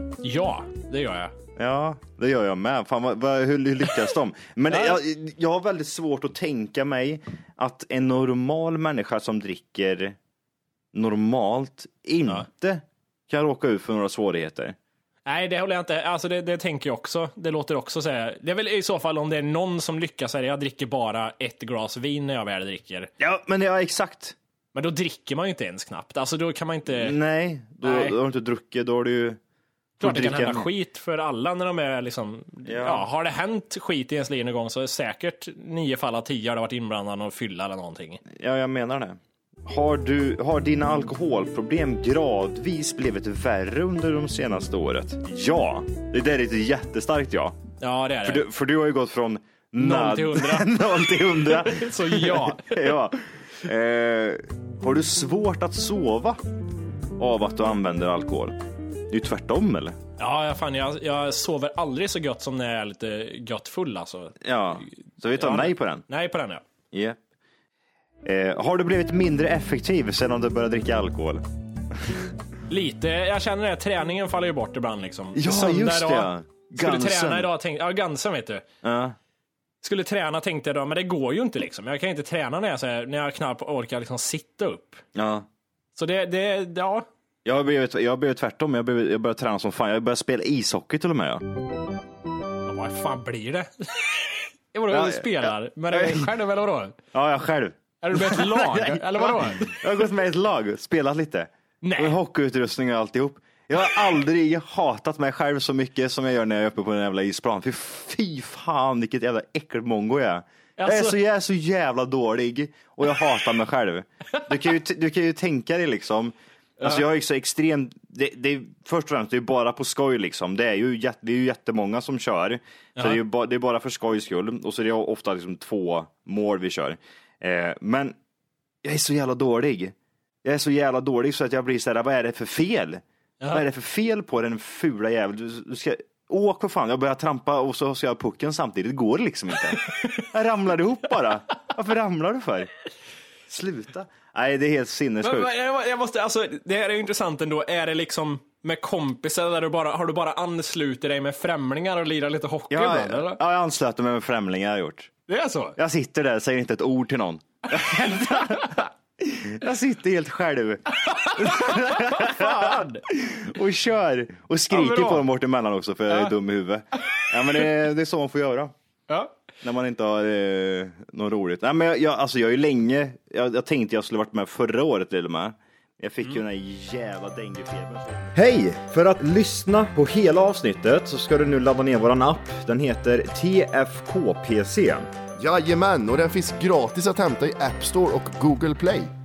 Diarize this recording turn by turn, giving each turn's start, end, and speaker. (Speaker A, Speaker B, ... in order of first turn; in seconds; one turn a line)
Speaker A: 0.2-1.3
Speaker B: 1.6-10.2
Speaker A: 4.7-5.0
Speaker B: 10.9-14.8
Speaker A: 15.3-23.1
Speaker B: 23.2-24.4
Speaker A: 24.8-27.2
Speaker B: 26.9-29.4
Speaker A: 27.8-28.2
Speaker B: 30.0-30.7
Speaker A: 30.0-38.2
Speaker B: 32.7-33.1
Speaker B: 38.3-47.6
Speaker A: 47.8-48.5
Speaker B: 48.2-56.4
Speaker A: 49.8-50.7
Speaker A: 51.5-52.9
Speaker B: 57.2-60.0
Speaker A: 60.2-66.6
Speaker B: 64.4-66.0
Speaker B: 66.9-67.2
Speaker B: 68.2-72.2
Speaker A: 72.7-78.7
Speaker B: 75.3-77.5
Speaker B: 78.8-79.2
Speaker A: 79.8-85.0
Speaker B: 85.2-85.5
Speaker A: 86.0-87.1
Speaker B: 87.5-91.5
Speaker A: 92.7-97.0
Speaker B: 94.9-96.3
Speaker B: 97.1-128.2
Speaker A: 98.0-99.8
Speaker A: 101.8-102.2
Speaker A: 110.8-111.2
Speaker A: 116.8-117.0
Speaker B: 128.8-142.7
Speaker B: 143.5-145.5
Speaker A: 145.2-153.4
Speaker B: 152.7-155.1
Speaker A: 155.3-155.8
Speaker B: 155.8-168.8
Speaker A: 157.7-158.8
Speaker A: 161.0-163.1
Speaker A: 164.7-165.3
Speaker A: 169.1-169.4
Speaker B: 169.6-185.1
Speaker C: 185.4-189.1